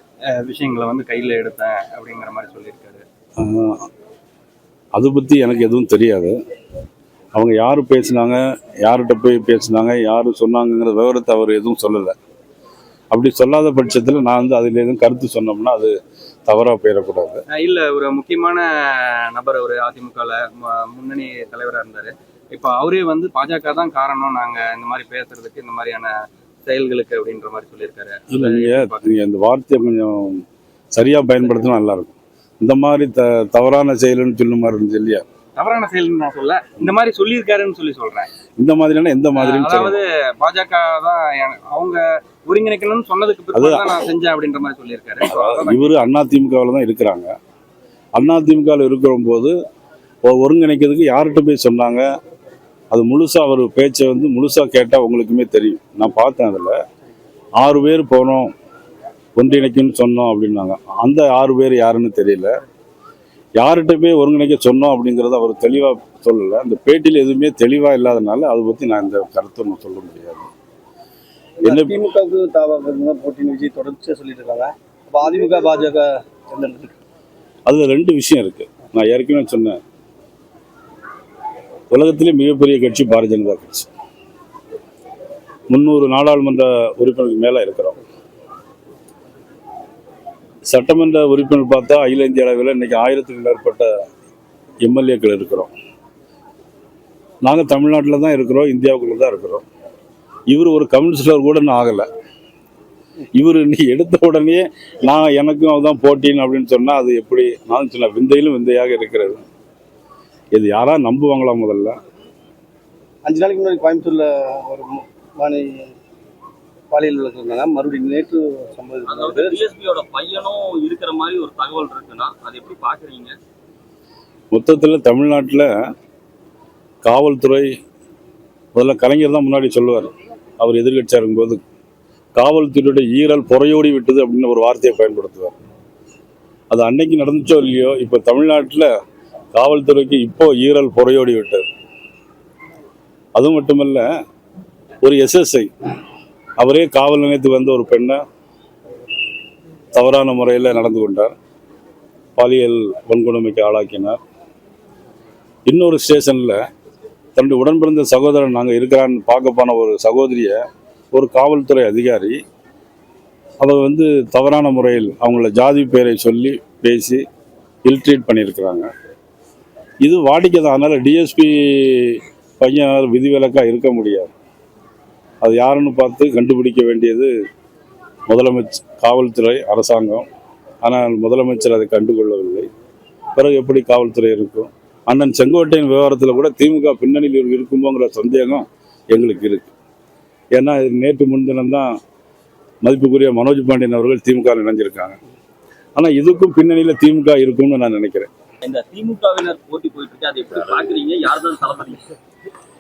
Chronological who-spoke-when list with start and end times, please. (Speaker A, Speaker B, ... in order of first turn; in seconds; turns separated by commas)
Speaker A: 0.3-3.0, Speaker B: 3.4-3.9, Speaker B: 4.9-6.4, Speaker B: 7.3-12.2, Speaker B: 13.1-15.9, Speaker B: 16.5-17.4, Speaker A: 17.5-26.1, Speaker A: 26.7-29.1, Speaker B: 28.3-35.2, Speaker A: 35.6-38.3, Speaker B: 38.6-40.0, Speaker A: 39.4-46.0, Speaker B: 43.5-43.9, Speaker B: 45.3-47.3, Speaker B: 48.1-49.5, Speaker B: 50.2-52.1, Speaker B: 52.9-56.8, Speaker B: 57.6-58.5, Speaker B: 59.4-62.5, Speaker B: 63.6-70.5, Speaker B: 71.6-72.0, Speaker C: 71.6-77.0, Speaker B: 77.7-79.8, Speaker B: 81.9-83.9, Speaker B: 85.7-88.0, Speaker B: 90.7-93.9, Speaker B: 94.8-95.7, Speaker B: 97.4-99.7, Speaker B: 100.5-102.1, Speaker B: 103.3-109.4, Speaker B: 110.5-112.0, Speaker C: 113.2-115.9, Speaker C: 116.9-119.5, Speaker D: 119.1-123.4, Speaker B: 124.5-125.7, Speaker B: 127.0-127.7, Speaker B: 128.7-131.6, Speaker B: 132.4-135.6, Speaker B: 136.7-138.9, Speaker B: 139.5-141.7, Speaker B: 143.3-144.1, Speaker B: 145.0-145.7, Speaker B: 146.6-148.2, Speaker B: 149.9-151.3, Speaker B: 152.4-154.2, Speaker B: 155.7-156.6, Speaker B: 157.3-160.6, Speaker B: 161.1-162.4, Speaker B: 163.6-167.2, Speaker B: 167.8-168.9, Speaker B: 170.0-174.3, Speaker B: 175.4-177.3, Speaker B: 178.3-180.3, Speaker B: 180.8-182.7, Speaker B: 183.3-189.7, Speaker B: 190.5-192.0, Speaker B: 192.8-195.2, Speaker B: 196.0-198.3, Speaker D: 198.6-202.1